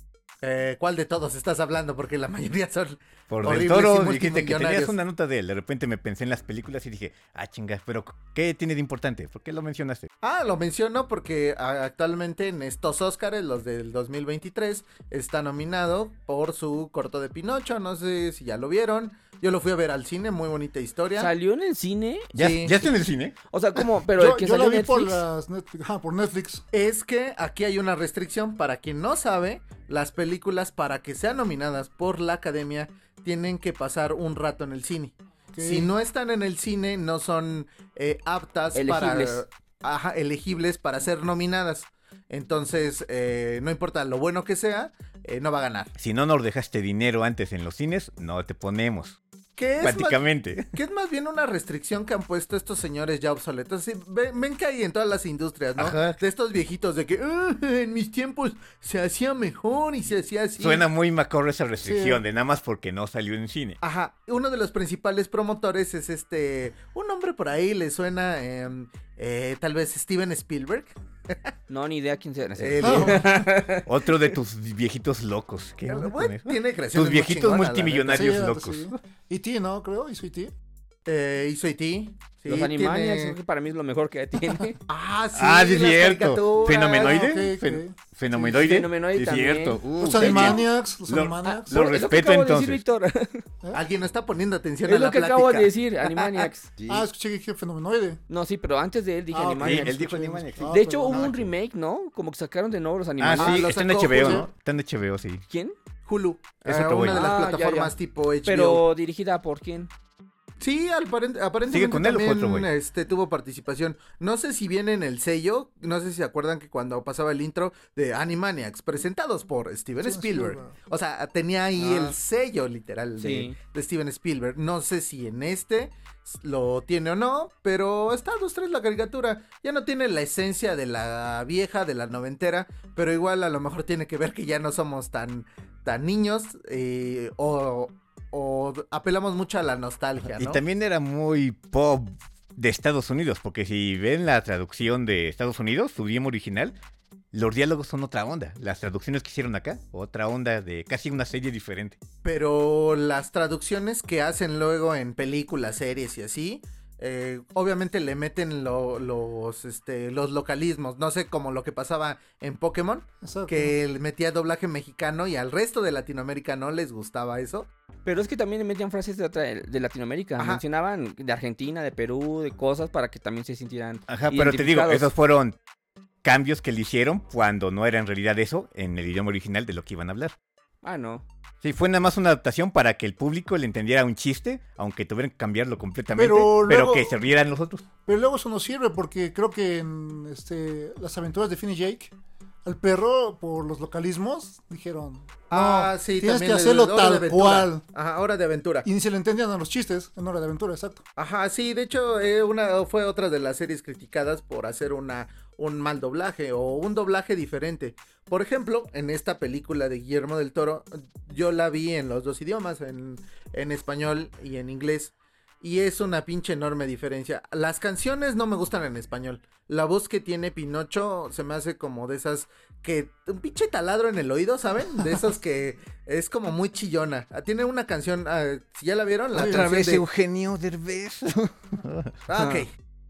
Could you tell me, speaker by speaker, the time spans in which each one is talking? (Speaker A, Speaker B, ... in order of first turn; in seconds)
Speaker A: 0.4-4.9, 10.2-21.3, 22.4-22.8, 26.7-45.9, 49.5-60.9, 63.8-71.5, 72.6-73.4, 75.9-78.3, 81.0-83.4, 84.9-87.2, 93.7-96.5, 103.4-104.5, 106.0-108.8, 110.6-140.6, 152.2-167.7, 195.5-198.9, 201.2-230.0, 232.3-232.7
Speaker B: 3.3-10.1, 22.3-23.8, 46.0-49.2, 49.8-50.7, 55.8-56.2, 60.6-63.8, 73.8-79.0, 85.3-92.8, 96.8-97.0, 99.6-101.5, 103.2-105.4, 106.6-107.3, 111.7-112.7, 140.2-146.7, 147.3-152.0, 174.1-175.6, 176.2-180.3, 181.6-187.8, 229.3-232.2
Speaker C: 21.2-22.7, 23.5-25.2, 38.7-39.4, 71.7-73.9, 82.5-84.8, 88.4-90.6, 91.5-93.4, 94.8-96.7, 98.3-100.0, 100.7-103.8, 105.5-105.8, 107.1-107.9, 108.4-109.9, 121.8-122.2, 123.2-123.5, 168.0-175.1, 180.8-181.2, 232.3-232.7
Speaker D: 24.1-26.6, 35.5-35.9, 61.8-62.2, 72.8-73.3, 78.1-80.5, 86.9-88.6, 90.0-91.8, 96.9-98.2, 99.3-101.3, 104.1-104.5, 120.0-120.8, 163.2-163.7, 186.1-187.1, 188.1-192.1, 192.6-197.8, 198.8-201.0